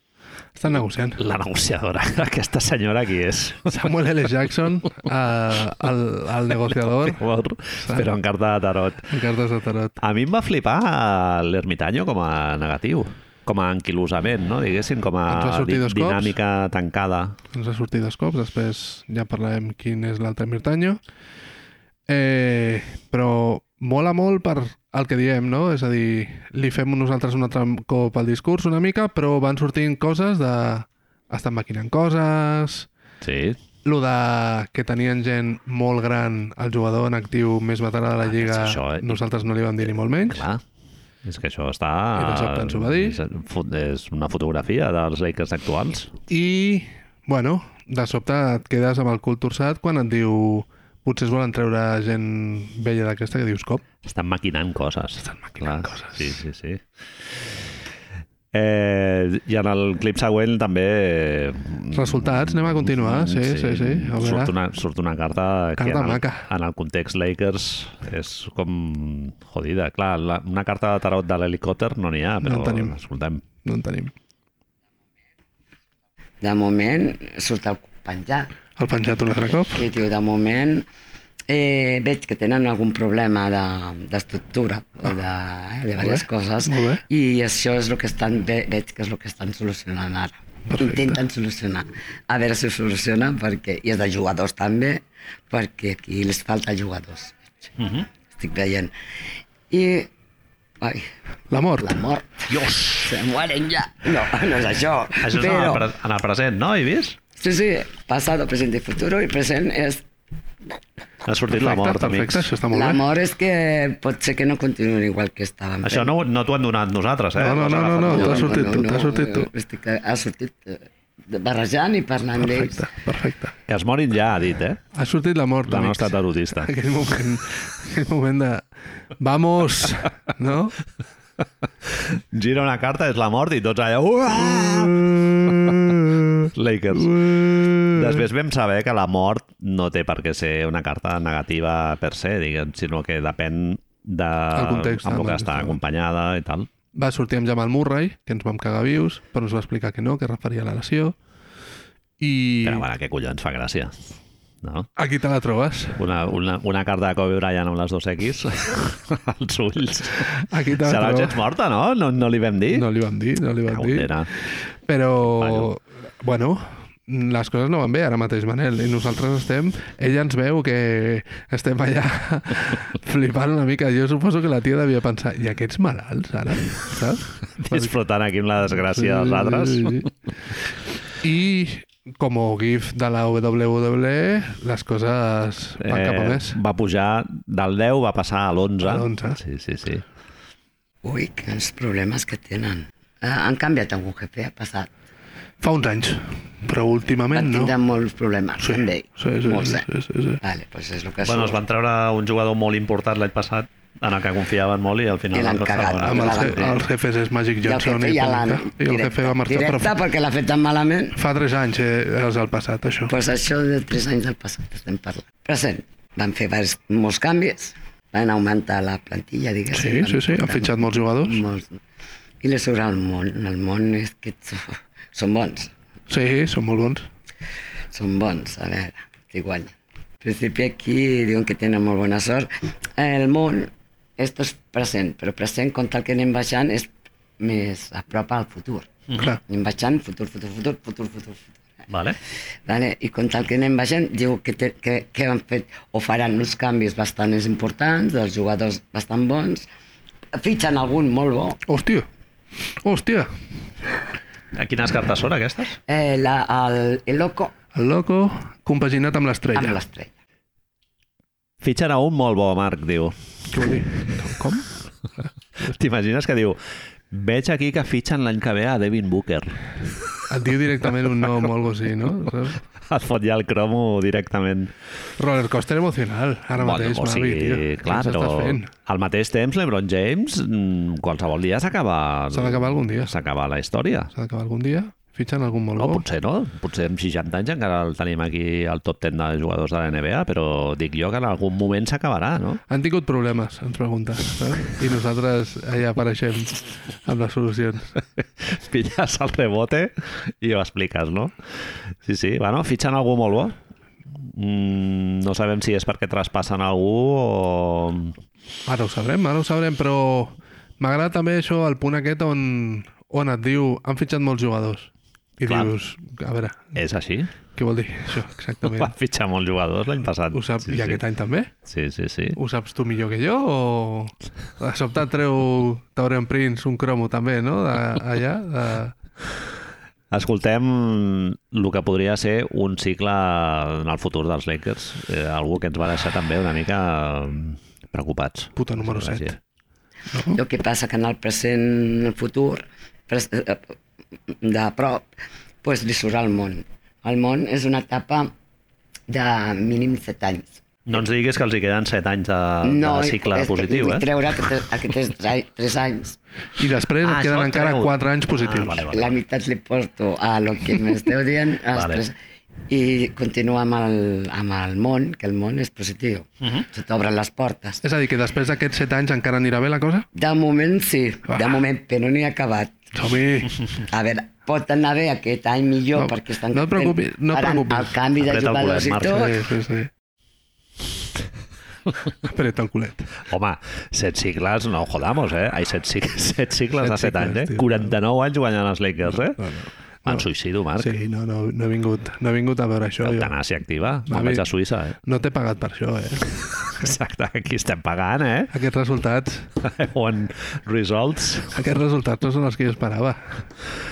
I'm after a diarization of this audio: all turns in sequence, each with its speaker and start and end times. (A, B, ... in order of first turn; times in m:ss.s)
0:00.6-0:01.2 A
0:01.2-0:03.9 B
0:03.7-0:07.2 A
0:07.1-0:09.1 B
0:07.8-0:08.1 A
0:09.1-0:10.0 A
0:10.0-0:17.4 B
0:15.3-0:16.4 A
0:17.5-0:21.0 A
0:22.1-0:32.9 A
0:33.2-0:33.6 B
0:33.8-0:40.4 A
0:38.2-0:39.2 B
0:40.3-0:40.6 B
0:41.2-0:46.1 B
0:42.2-0:43.2 A
0:46.3-0:53.8 A
0:54.0-0:56.8 B
0:55.2-0:56.4 A
0:58.5-1:13.4 B
1:01.9-1:04.5 A
1:05.8-1:06.5 A
1:12.4-1:13.0 A
1:13.6-1:14.1 A
1:16.4-1:18.5 C
1:18.8-1:19.8 A
1:19.7-1:20.9 C
1:21.5-1:37.4 C
1:26.0-1:27.0 A
1:30.7-1:31.2 A
1:37.8-1:38.1 B
1:38.4-1:38.9 C
1:39.7-1:40.1 C
1:40.8-1:41.1 C
1:41.5-1:42.0 A
1:41.8-1:45.9 C
1:42.5-1:43.2 B
1:45.2-1:47.2 B
1:47.4-1:50.1 C
1:51.2-1:52.5 B
1:51.5-1:53.0 A
1:52.7-1:56.1 C
1:55.8-1:58.7 B
1:57.4-1:59.5 A
1:57.7-2:02.8 C
2:02.4-2:03.5 A
2:03.7-2:04.8 B
2:04.9-2:08.7 A
2:05.7-2:06.7 B
2:09.2-2:10.8 A
2:11.8-2:15.9 B
2:14.7-2:18.2 A
2:16.5-2:26.7 B
2:24.5-2:25.8 A
2:26.9-2:31.2 A
2:32.2-2:32.9 A
2:32.6-2:34.9 B
2:35.0-2:36.0 A
2:36.0-2:42.9 B
2:40.4-2:41.4 A
2:42.7-2:44.1 A
2:43.7-2:44.3 B
2:44.8-2:57.9 A
2:45.2-2:45.7 B
2:57.6-3:00.1 B
2:58.8-3:00.1 A
3:01.2-3:06.6 A
3:05.8-3:10.0 B
3:08.8-3:09.4 A
3:11.0-3:14.9 C
3:15.6-3:17.7 A
3:17.3-3:19.8 C
3:18.6-3:20.4 A
3:20.4-3:21.6 C
3:21.2-3:26.8 B
3:25.3-3:26.8 C
3:26.0-3:30.0 A
3:27.6-3:31.2 C
3:31.2-3:33.1 A
3:33.1-3:41.7 C
3:39.7-3:41.4 A
3:42.4-3:45.7 C
3:46.1-3:47.0 A
3:47.9-3:58.9 C
3:59.4-4:01.6 C
4:01.9-4:02.2 B
4:02.7-4:09.7 C
4:10.4-4:11.6 C
4:11.7-4:12.1 A
4:12.8-4:13.3 A
4:14.5-4:15.8 B
4:15.9-4:17.5 C
4:17.7-4:19.8 A
4:19.5-4:20.1 C
4:21.6-4:23.2 B
4:23.5-4:24.7 A
4:25.6-4:26.6 B
4:27.1-4:30.2 B
4:30.3-4:32.6 A
4:32.8-4:34.7 B
4:35.2-4:38.7 A
4:36.6-4:44.1 B
4:42.3-4:43.2 A
4:44.1-4:46.0 A
4:45.8-4:52.6 B
4:52.7-4:58.0 A
4:58.2-5:01.3 B
5:02.0-5:03.6 B
5:04.2-5:08.2 B
5:08.7-5:16.8 A
5:15.5-5:15.7 B
5:16.8-5:17.3 B
5:17.6-5:18.9 A
5:18.6-5:21.0 B
5:20.3-5:21.5 A
5:21.6-5:22.4 B
5:22.4-5:29.0 A
5:30.1-5:39.3 B
5:38.6-5:39.4 A
5:40.3-5:43.8 C
5:44.3-5:45.1 C
5:45.6-5:48.3 C
5:49.1-5:50.6 C
5:50.9-5:54.5 B
5:52.6-5:56.2 C
5:56.6-5:58.8 A
5:57.0-5:59.2 B
5:58.9-6:02.2 C
6:01.7-6:02.0 B
6:02.7-6:07.8 C
6:07.8-6:10.1 A
6:10.1-6:12.8 C
6:12.9-6:13.6 A
6:13.9-6:19.4 C
6:16.0-6:18.0 A
6:18.2-6:19.3 B
6:19.1-6:19.9 A
6:22.2-6:23.1 A
6:23.2-6:29.4 B
6:26.8-6:27.9 A
6:29.4-6:30.2 A
6:30.0-6:30.9 B
6:30.8-6:33.3 A
6:33.0-6:35.0 B
6:34.1-6:34.5 A
6:35.0-6:36.3 A
6:36.7-6:38.5 B
6:38.5-6:39.5 A
6:39.6-6:41.6 B
6:41.5-6:43.4 A